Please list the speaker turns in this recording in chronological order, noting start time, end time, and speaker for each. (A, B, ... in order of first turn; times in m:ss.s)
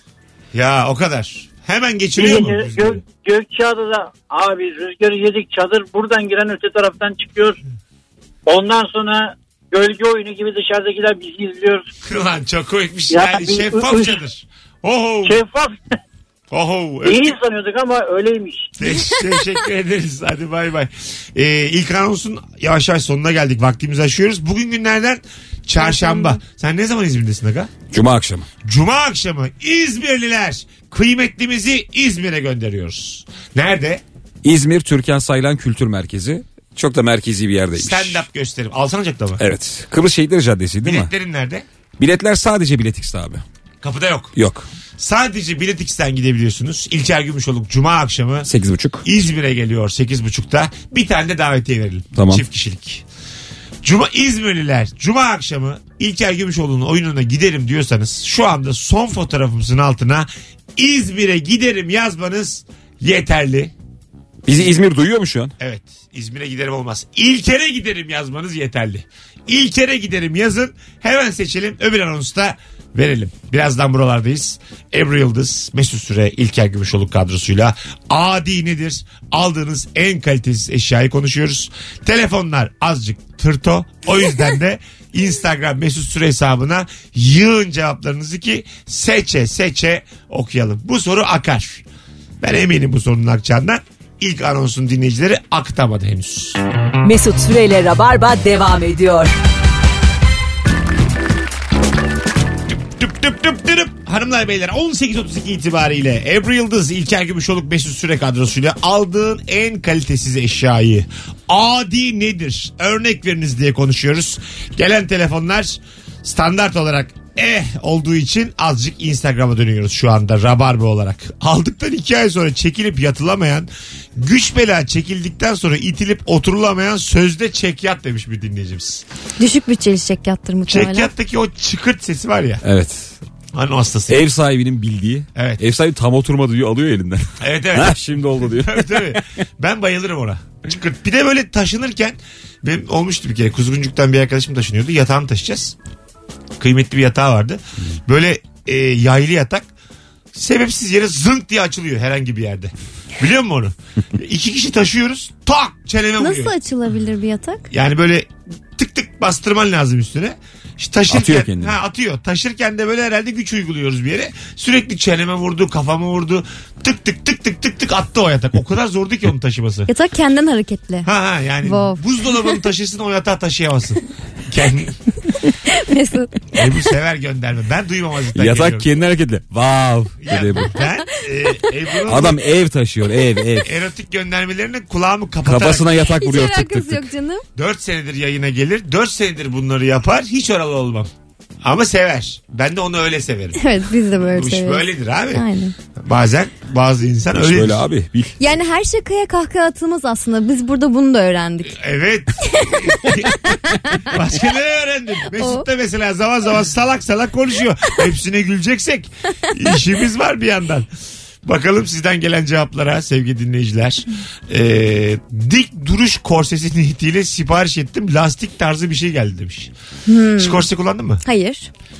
0:00.5-0:03.0 A
0:02.2-0:07.6 B
0:08.5-0:11.9 B
0:12.0-0:15.4 A
0:13.1-0:14.2 B
0:15.2-0:15.8 B
0:16.5-0:17.4 A
0:17.0-0:18.8 B
0:18.8-0:27.7 A
0:25.8-0:26.4 C
0:27.9-0:28.5 D
0:28.6-0:34.0 A
0:34.4-0:38.2 D
0:37.8-0:39.4 A
0:39.4-0:41.1 D
0:40.8-0:41.6 A
0:42.0-0:43.4 D
0:43.8-0:44.4 A
0:44.4-0:44.7 D
0:45.0-0:48.5 A
0:48.5-0:49.0 D
0:49.0-0:53.0 A
0:52.2-0:52.4 D
0:53.8-1:03.7 A
1:04.5-1:05.5 D
1:05.6-1:31.8 A
1:32.4-1:36.6 A
1:37.0-1:39.3 E
1:42.8-2:09.0 A
2:09.4-2:11.1 C
2:10.7-2:12.6 A
2:12.6-2:13.2 D
2:13.5-2:14.3 A
2:14.1-2:19.2 D
2:15.4-2:15.6 A
2:17.4-2:25.8 A
2:26.6-2:29.7 A
2:30.3-2:36.5 A
2:36.2-2:37.7 C
2:37.7-2:49.9 A
2:41.1-2:41.7 D
2:49.9-2:51.1 C
2:51.0-2:55.0 A
2:51.6-2:52.0 C
2:55.6-2:56.4 C
2:56.5-2:58.9 A
2:58.4-3:00.7 D
3:00.2-3:02.4 A
3:00.8-3:01.6 C
3:02.1-3:03.7 D
3:03.6-3:05.9 A
3:05.4-3:07.1 D
3:06.1-3:07.4 C
3:07.6-3:11.1 A
3:11.6-3:13.6 A
3:13.6-3:15.7 C
3:14.2-3:17.8 A
3:17.4-3:18.4 D
3:18.4-3:21.8 C
3:21.7-3:30.9 A
3:22.4-3:24.1 C
3:25.4-3:25.7 C
3:31.4-3:39.7 A
3:40.1-3:40.7 C
3:40.4-3:41.2 A
3:41.2-3:41.7 C